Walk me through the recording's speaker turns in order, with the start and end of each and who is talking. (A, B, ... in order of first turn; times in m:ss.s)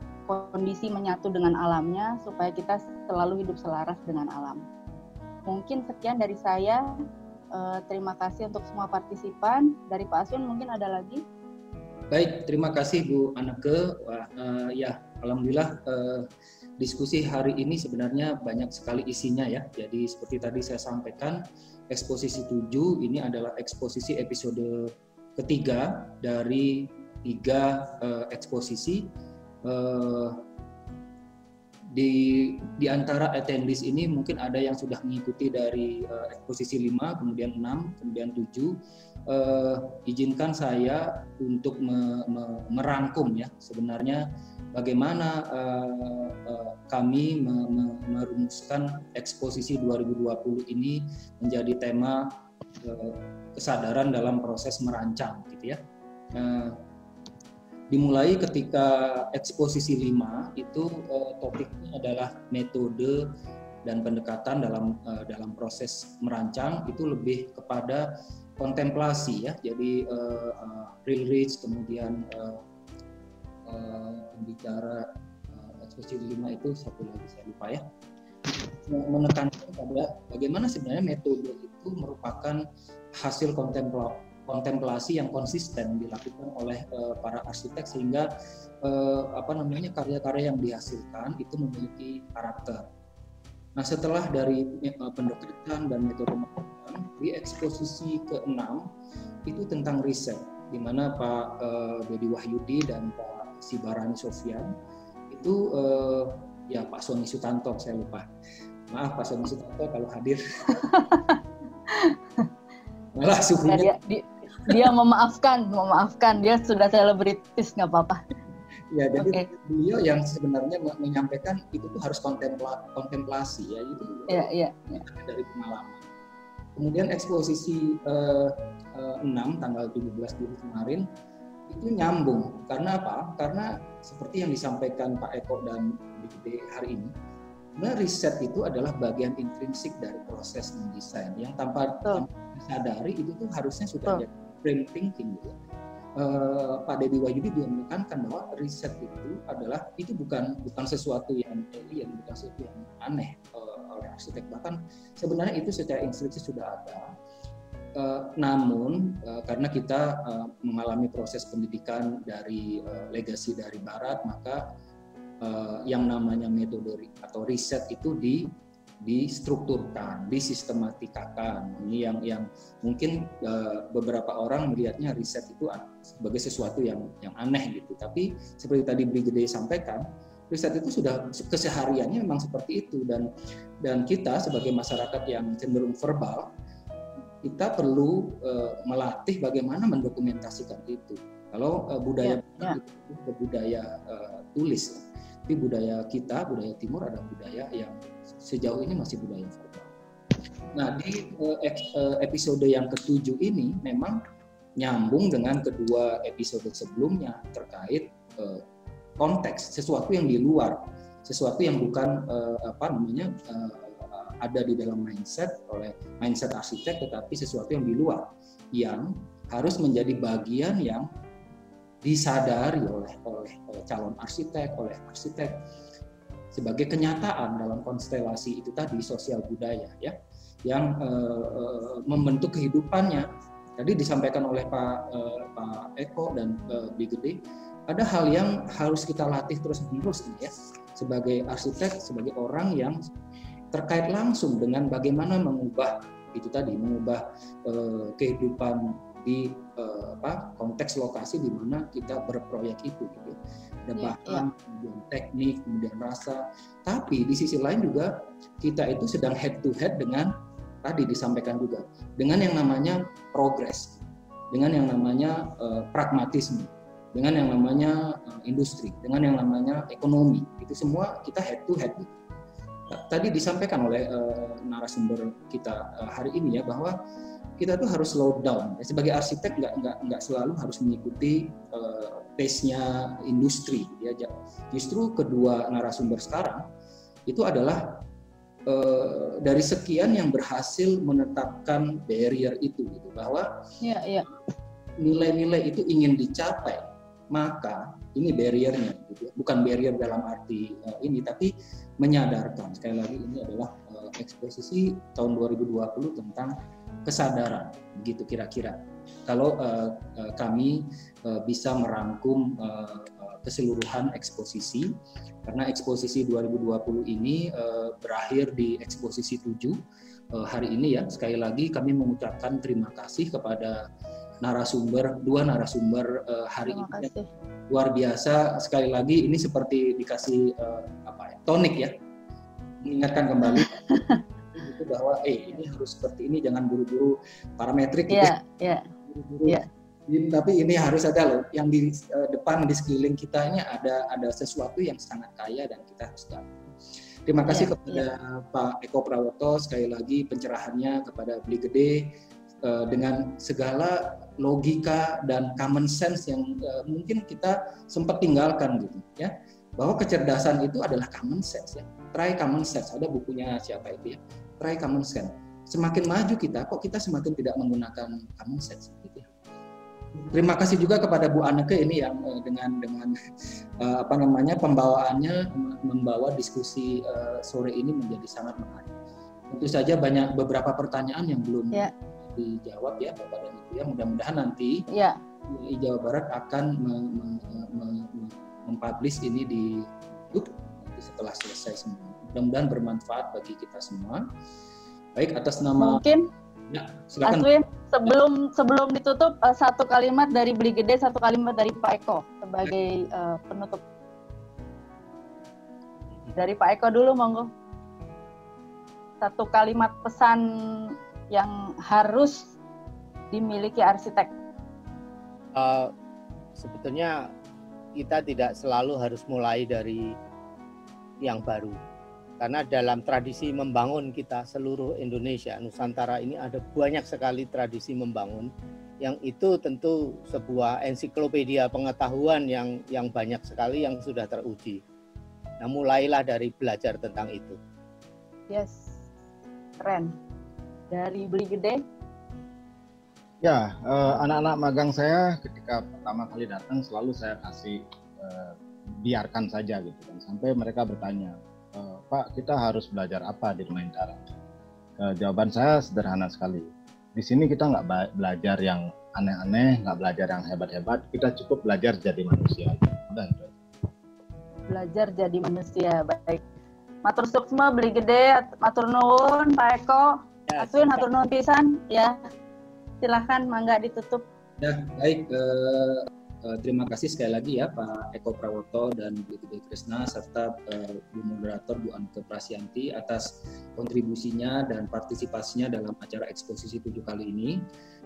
0:00.3-0:04.6 A
0:05.5-0:07.0 A
0:07.5-0:11.2 A
0:12.1-0:16.3 B
0:16.8-0:29.1 B
0:29.6-0:30.4 B
0:31.9-0:55.8 B
0:56.3-0:56.8 B
0:57.9-1:03.3 B
1:03.8-1:12.6 B
1:13.7-1:17.8 B
1:18.4-1:22.6 B
1:23.2-1:28.3 B
1:28.8-1:32.8 B
1:33.8-1:38.9 B
1:39.5-1:44.7 B
1:45.3-1:48.3 B
1:48.9-1:50.9 B
1:50.8-1:52.5 A
1:53.2-1:53.9 B
1:53.7-1:58.2 A
1:54.6-1:54.9 B
1:58.9-2:06.0 B
1:59.2-1:59.4 A
2:04.3-2:05.0 A
2:06.8-2:11.1 B
2:11.7-2:17.1 B
2:17.8-2:25.6 B
2:26.2-2:37.1 B
2:38.0-2:44.6 B
2:45.4-3:03.3 B
3:03.8-3:06.5 B
3:07.4-3:19.9 B
3:12.2-3:12.8 A
3:20.7-3:24.2 B
3:24.8-3:28.6 B
3:29.2-3:41.1 B
3:42.0-3:45.6 B
3:46.5-4:03.0 B
4:03.7-4:20.3 B
4:14.0-4:14.5 A
4:20.8-4:24.0 B
4:24.5-4:32.2 B
4:32.9-4:37.0 B
4:37.6-4:46.6 B
4:47.3-4:48.0 B
4:48.7-4:53.5 B
4:53.8-4:54.3 A
4:55.0-5:14.9 B
5:15.5-5:19.8 B
5:20.3-5:23.8 B
5:24.4-5:27.1 B
5:26.7-5:27.3 A
5:27.7-5:31.9 B
5:32.8-5:33.8 B
5:33.6-5:34.2 A
5:34.5-5:38.3 B
5:38.1-5:38.9 A
5:39.1-5:46.5 B
5:47.3-6:09.3 B
5:47.5-5:48.0 A
6:10.2-6:13.2 B
6:13.8-6:18.9 B
6:19.5-6:24.8 B
6:24.9-6:25.2 A
6:25.5-6:34.2 B
6:35.2-6:36.0 B
6:35.8-6:36.3 A
6:36.7-6:37.5 B
6:37.2-6:43.8 A
6:46.4-6:47.5 A
6:49.2-6:52.5 A
6:53.3-6:54.3 A
6:55.6-6:55.9 C
6:56.6-6:57.3 C
6:58.0-7:00.1 C
7:01.2-7:01.8 C
7:02.4-7:08.5 C
7:09.0-7:14.8 C
7:15.6-7:17.6 C
7:18.5-7:19.0 A
7:19.8-7:20.2 A
7:20.9-7:21.8 A
7:23.4-7:34.3 D
7:35.0-7:43.6 D
7:44.7-7:46.4 A
7:47.0-7:52.2 A
7:50.5-7:51.1 C
7:53.0-7:54.3 A
7:54.6-8:07.6 B